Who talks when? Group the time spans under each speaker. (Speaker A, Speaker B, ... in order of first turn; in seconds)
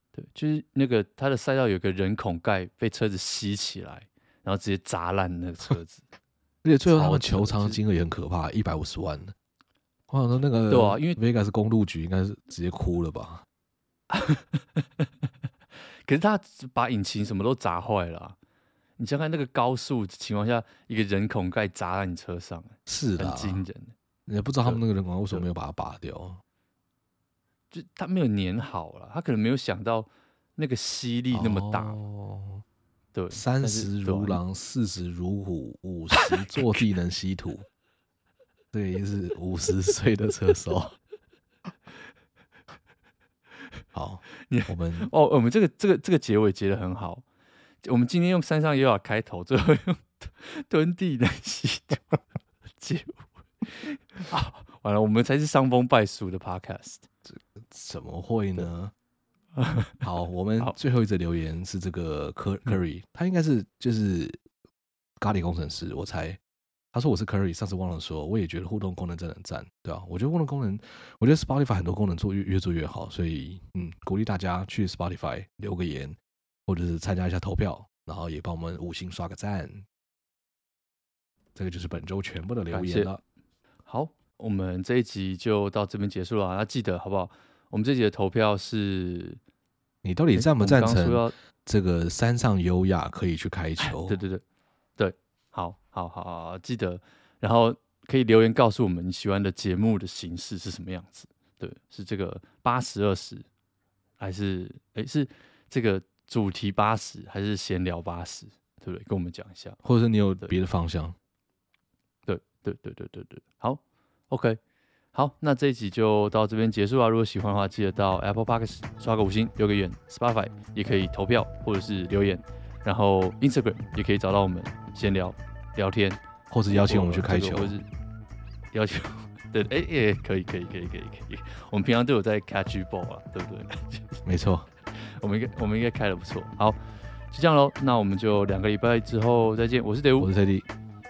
Speaker A: 0.1-6.0, 6.9-7.8, 10.7-11.2, 14.1-15.1, 15.9-18.4, 19.0-23.9, 24.6-25.4, 27.7-32.0, 33.1-34.4, 36.2-36.5, 44.5-47.2, 47.8-52.2, 52.8-57.1, 59.6-60.0, 82.7-83.1, 83.9-89.4, 90.3-91.3, 93.8-94.4, 95.0-103.5, 104.2-109.8, 112.3-114.6, 115.1-127.9, 128.7-134.2, 134.9-136.8, 137.3-140.3
Speaker B: 6.6-9.3, 10.1-13.4, 22.9-23.7, 24.3-26.4, 31.3-32.6, 33.3-37.6, 38.7-41.0, 43.9-45.1, 57.3-58.9, 60.0-64.4, 65.2-66.4, 66.9-79.8, 81.6-83.2, 90.0-94.2, 109.8-111.2, 126.5-127.8, 134.2-134.7, 140.2-140.7